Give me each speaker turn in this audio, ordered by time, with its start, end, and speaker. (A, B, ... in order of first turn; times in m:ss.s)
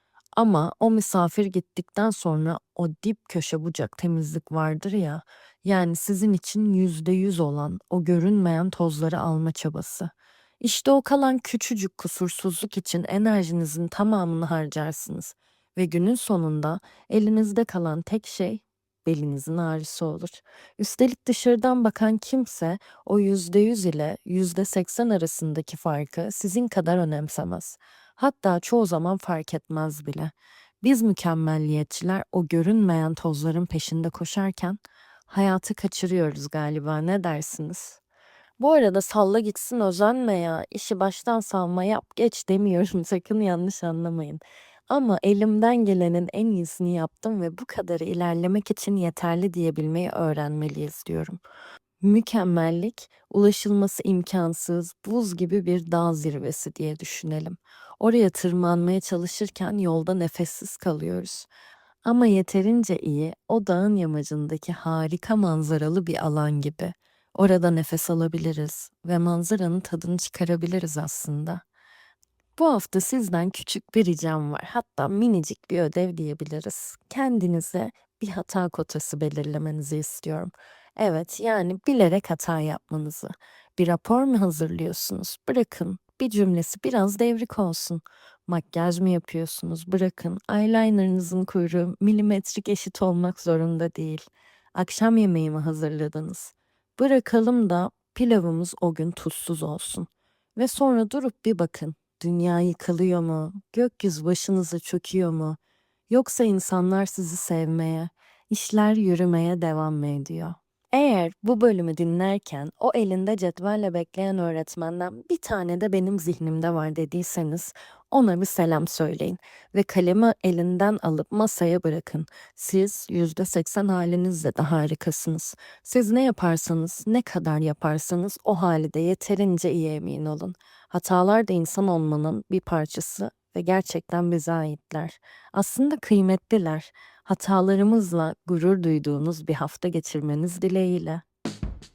0:00.4-0:38.0 A
0:38.6-0:51.4 A
0:52.0-1:01.5 A
1:02.0-1:11.6 A
1:12.6-1:45.6 A
1:46.1-2:21.2 A